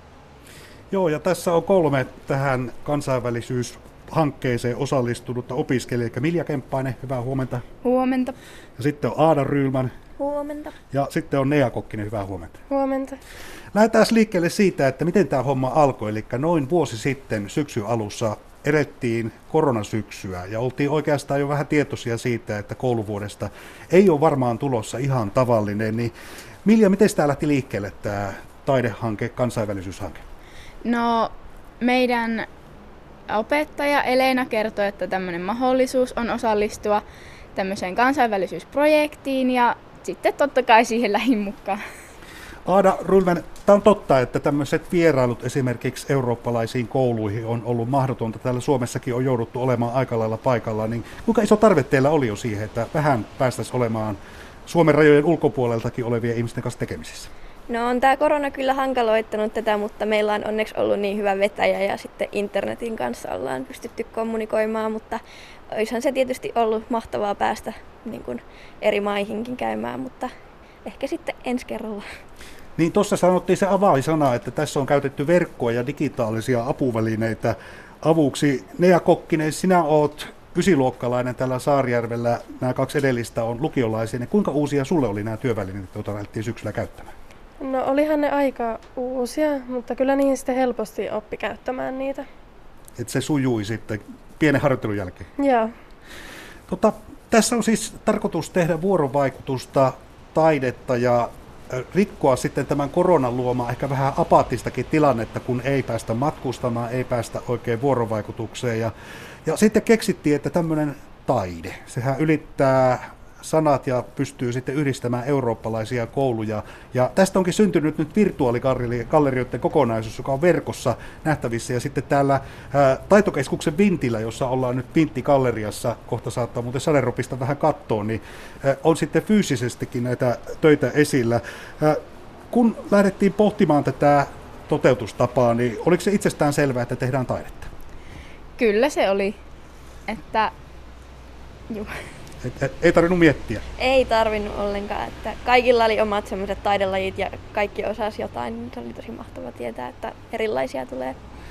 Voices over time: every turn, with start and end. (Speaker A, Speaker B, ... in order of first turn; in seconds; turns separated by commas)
Speaker A: 0.9-7.6, Speaker B: 7.8-8.3, Speaker A: 8.8-9.9, Speaker C: 10.2-10.7, Speaker A: 10.9-12.6, Speaker D: 12.7-13.1, Speaker A: 13.7-26.1, Speaker A: 26.6-30.2, Speaker B: 30.8-32.5, Speaker B: 33.3-37.0, Speaker B: 37.5-41.8, Speaker A: 42.7-57.3, Speaker C: 57.7-70.3, Speaker C: 70.8-72.0, Speaker A: 72.8-87.1, Speaker D: 87.6-92.2, Speaker A: 93.0-95.3, Speaker D: 95.4-95.7, Speaker A: 96.7-108.9, Speaker A: 109.5-132.0, Speaker A: 132.5-137.7, Speaker B: 138.6-139.4, Speaker B: 140.1-140.5, Speaker A: 142.4-143.6, Speaker C: 143.8-151.2